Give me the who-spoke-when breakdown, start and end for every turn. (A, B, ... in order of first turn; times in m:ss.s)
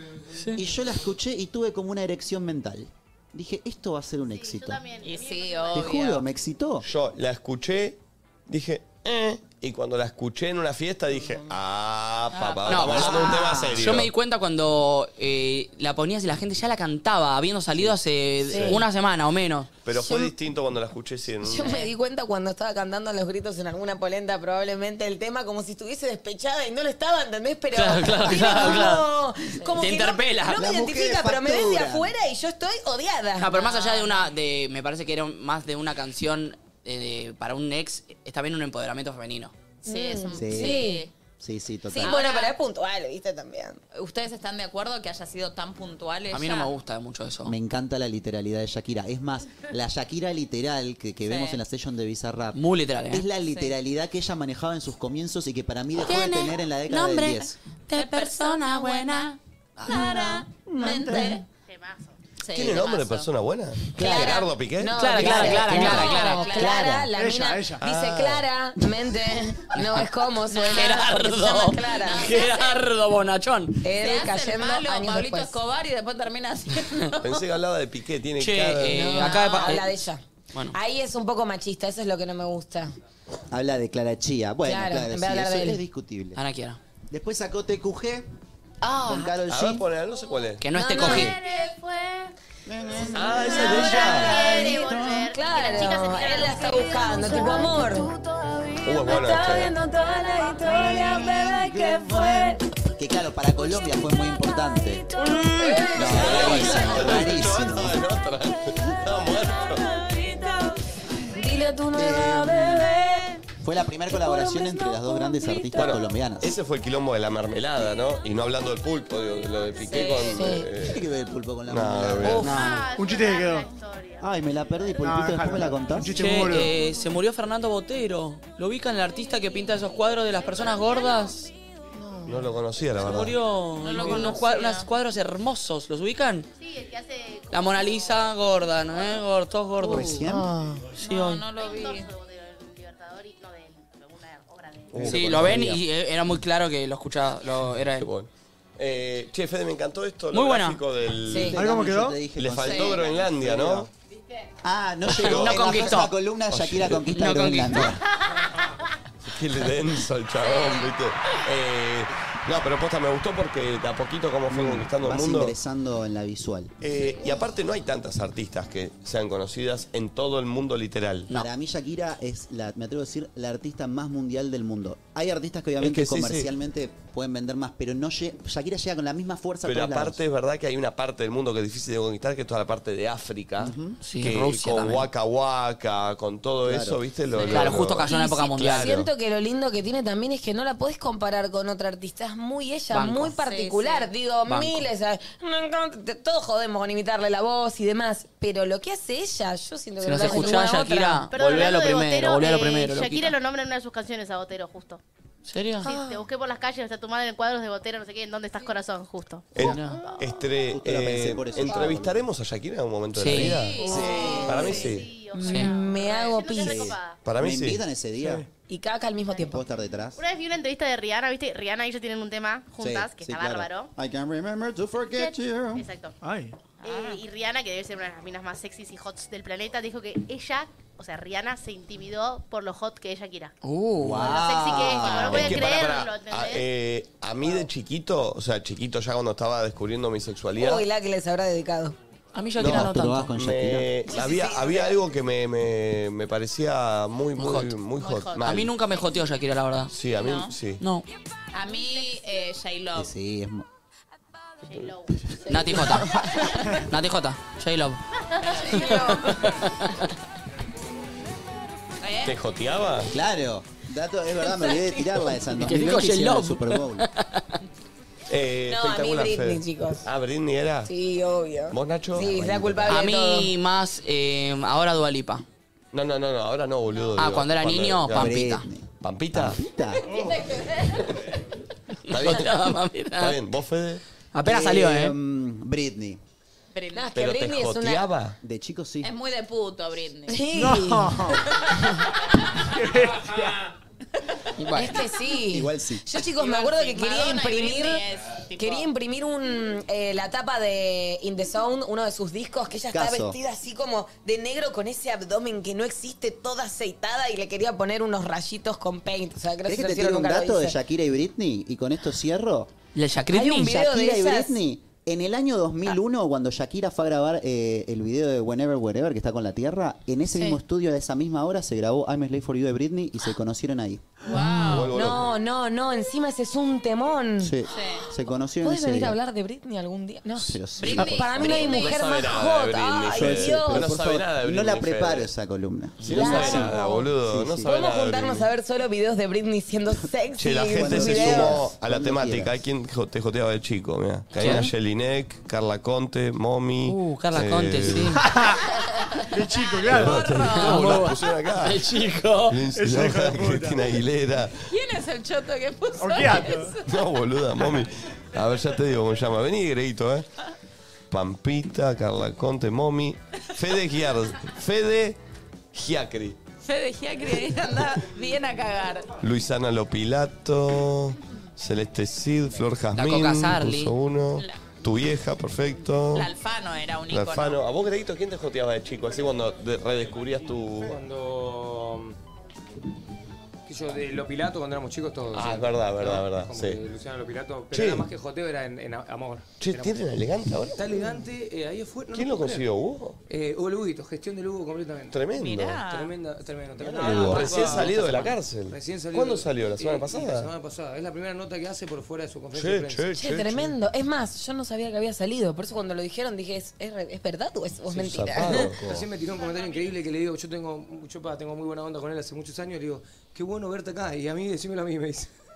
0:00.3-0:00.6 A
0:00.5-0:04.8 B
0:04.3-0:06.0 C
0:05.0-0:06.2 D
0:05.7-0:06.8 B
0:06.8-0:14.1 E
0:12.3-0:13.1 D
0:12.7-0:19.7 A
0:12.9-0:14.0 B
0:18.5-0:18.8 E
0:18.5-0:18.8 F
0:19.8-0:21.8 E
0:19.9-0:20.3 F
0:21.4-0:33.6 F
0:27.7-0:29.1 A
0:29.7-0:30.6 A
0:30.5-0:32.1 B
0:33.4-0:39.5 A
0:33.5-0:34.2 D
0:39.8-0:41.1 F
0:39.8-0:41.1 D
0:40.4-0:42.2 B
0:41.9-0:43.8 F
0:41.9-0:42.6 D
0:43.9-0:46.7 D
0:46.3-0:47.5 A
0:47.4-0:52.6 B
0:51.2-0:51.6 D
0:52.5-0:53.2 A
0:53.1-0:57.5 B
0:53.4-0:53.8 D
0:56.0-0:57.3 A
0:56.9-1:01.4 D
0:57.9-0:59.2 A
0:59.8-1:01.4 B
1:01.7-1:02.2 C
1:02.4-1:03.3 D
1:02.5-1:05.1 E
1:04.0-1:12.5 F
1:04.0-1:04.3 D
1:04.9-1:06.5 A
1:05.2-1:07.1 B
1:05.8-1:06.8 D
1:07.1-1:07.8 G
1:07.9-1:08.9 B
1:10.5-1:11.0 D
1:10.7-1:13.8 A
1:12.0-1:12.5 D
1:13.8-1:15.5 F
1:14.0-1:17.4 D
1:17.2-1:19.4 E
1:18.4-1:19.9 A
1:18.9-1:22.9 F
1:23.5-1:26.4 B
1:24.6-1:25.8 F
1:26.3-1:26.8 A
1:27.1-1:28.3 B
1:28.8-1:29.3 F
1:28.8-1:29.8 B
1:29.5-1:30.6 E
1:30.6-1:31.4 A
1:30.7-1:31.4 F
1:31.1-1:32.3 C
1:32.6-1:35.3 B
1:33.0-1:38.2 F
1:33.1-1:34.4 E
1:33.7-1:37.4 C
1:38.8-1:39.7 E
1:39.0-1:42.6 F
1:40.6-1:45.0 B
1:45.4-1:47.1 F
1:45.9-1:48.0 B
1:46.0-1:49.8 E
1:50.1-1:50.5 F
1:51.3-1:53.3 F
1:51.9-1:52.9 B
1:53.6-1:56.5 B
1:54.1-1:56.0 F
1:55.7-2:01.0 E
1:59.9-2:00.2 D
2:00.2-2:00.7 F
2:00.8-2:02.5 B
2:01.7-2:02.5 E
2:02.2-2:02.9 A
2:02.5-2:04.2 C
2:03.0-2:03.7 G
2:04.2-2:06.3 B
2:05.0-2:06.7 G
2:06.1-2:11.5 A
2:11.9-2:12.4 F
2:12.2-2:13.4 E
2:13.0-2:16.5 A
2:13.8-2:14.9 D
2:16.6-2:19.2 C
2:17.5-2:20.2 A
2:19.8-2:20.5 B
2:20.2-2:21.2 F
2:21.0-2:22.1 D
2:21.1-2:21.4 A
2:21.5-2:25.1 C
2:24.9-2:25.8 B
2:24.9-2:25.6 E
2:25.0-2:28.1 A
2:27.9-2:31.6 E
2:30.3-2:31.5 A
2:31.5-2:32.2 G
2:31.5-2:33.9 B
2:32.4-2:33.9 E
2:32.6-2:33.0 D
2:34.6-2:38.0 B
2:35.0-2:36.0 E
2:35.1-2:36.1 A
2:36.5-2:37.0 E
2:37.0-2:38.0 A
2:39.2-2:45.5 E
2:40.4-2:40.8 D
2:44.5-2:46.7 B
2:46.8-2:51.4 E
2:51.3-3:00.2 B
2:55.8-2:56.5 E
2:59.6-3:09.1 E
3:03.6-3:04.0 B
3:04.0-3:05.1 A
3:06.6-3:07.0 B
3:07.4-3:08.9 A
3:08.0-3:21.3 F
3:12.9-3:13.3 A
3:13.4-3:14.1 D
3:14.4-3:14.9 A
3:20.0-3:23.4 A
3:21.3-3:25.0 C
3:25.4-3:25.9 A
3:25.8-3:26.2 F
3:25.8-3:30.2 C
3:29.5-3:33.8 E
3:29.6-3:30.0 A
3:30.7-3:32.3 B
3:33.1-3:33.7 A
3:33.4-3:35.0 D
3:33.8-3:34.8 B
3:33.8-3:37.2 C
3:34.2-3:34.8 F
3:34.4-3:35.0 E
3:35.3-3:37.0 F
3:35.4-3:35.7 A
3:36.6-3:38.4 B
3:37.2-3:37.8 E
3:38.2-3:38.5 G
3:38.7-3:39.6 F
3:39.5-3:40.2 B
3:40.2-3:43.9 C
3:42.8-3:45.8 B
3:45.1-3:46.2 C
3:46.2-3:46.5 G
3:46.8-3:53.5 C
3:46.8-3:47.2 D
3:53.6-3:54.3 A
3:54.0-3:55.6 B
3:54.2-3:56.7 C
3:54.9-3:55.3 A
3:55.1-4:00.8 E
4:00.6-4:02.0 F
4:02.3-4:03.4 A
4:02.6-4:08.7 E
4:02.6-4:04.0 B
4:04.1-4:04.8 F
4:04.4-4:04.8 C
4:07.4-4:07.8 A
4:08.0-4:08.4 D
4:08.4-4:09.9 A
4:09.9-4:10.8 E
4:10.2-4:10.5 D
4:11.5-4:13.1 D
4:12.9-4:13.6 B
4:14.6-4:15.2 C
4:15.5-4:16.2 F
4:15.5-4:18.0 A
4:18.3-4:18.7 C
4:18.5-4:19.1 D
4:18.6-4:19.3 F
4:18.7-4:20.1 A
4:22.0-4:22.3 D
4:22.2-4:23.1 E
4:23.1-4:27.1 B
4:24.4-4:25.2 D
4:25.5-4:27.6 A
4:28.3-4:30.9 E
4:28.7-4:30.1 F
4:30.9-4:33.5 F
4:31.7-4:32.3 E
4:32.1-4:33.0 B
4:32.9-4:35.4 A
4:35.9-4:39.6 E
4:37.2-4:38.6 A
4:38.1-4:40.1 B
4:40.1-4:41.0 D
4:42.1-4:43.4 A
4:42.1-4:44.0 E
4:44.3-4:45.2 A
4:44.4-4:46.2 B
4:46.7-4:47.1 D
4:46.9-4:48.0 F
4:47.1-4:48.4 E
4:48.4-4:49.1 B
4:49.0-4:50.4 D
4:50.3-4:52.1 F
4:50.5-4:51.4 G
4:52.6-4:53.7 G
4:54.6-4:55.0 A
4:54.7-4:58.0 F
4:55.5-4:56.1 B
4:56.1-4:58.9 D
4:58.6-5:10.8 F
5:02.9-5:03.4 B
5:09.6-5:12.7 B
5:12.9-5:13.8 A
5:13.3-5:14.6 F
5:13.6-5:24.1 B
5:24.2-5:25.0 D
5:24.3-5:27.6 F
5:24.6-5:25.3 E
5:27.4-5:29.2 B
5:27.7-5:28.1 D
5:28.6-5:33.9 F
5:30.4-5:31.7 B
5:30.8-5:32.0 D
5:31.6-5:35.3 E
5:33.1-5:37.7 B
5:36.0-5:38.5 E
5:36.1-5:37.1 F
5:37.7-5:41.7 F
5:40.4-5:48.2 E
5:40.7-5:42.6 B
5:44.3-5:44.7 A
5:46.9-5:48.2 A
5:48.2-5:48.6 G
5:49.3-5:50.9 G
5:49.8-5:50.7 D
5:49.9-5:51.9 E
5:50.4-5:52.6 A
5:52.5-5:54.6 E
5:52.8-5:53.8 G
5:54.7-5:56.8 D
5:56.0-5:56.7 G
5:56.8-6:00.2 E
6:01.1-6:05.2 E
6:05.7-6:06.4 E
6:06.6-6:09.1 D
6:09.2-6:16.3 E
6:12.9-6:13.9 A
6:14.3-6:14.6 D
6:16.1-6:17.6 D
6:17.1-6:20.9 E
6:20.8-6:22.1 H
6:23.7-6:30.1 H
6:25.3-6:26.8 E
6:27.7-6:28.1 E
6:29.6-6:30.8 E
6:30.7-6:32.7 H
6:32.1-6:33.2 E
6:33.3-6:35.2 H
6:35.1-6:35.8 E
6:35.4-6:36.1 D
6:35.8-6:43.1 H
6:36.9-6:37.4 B
6:37.0-6:40.5 E
6:42.5-6:43.8 E
6:43.1-6:48.7 F
6:47.9-6:55.3 H
6:48.2-6:48.9 E
6:48.2-6:49.0 B
6:49.3-6:50.0 C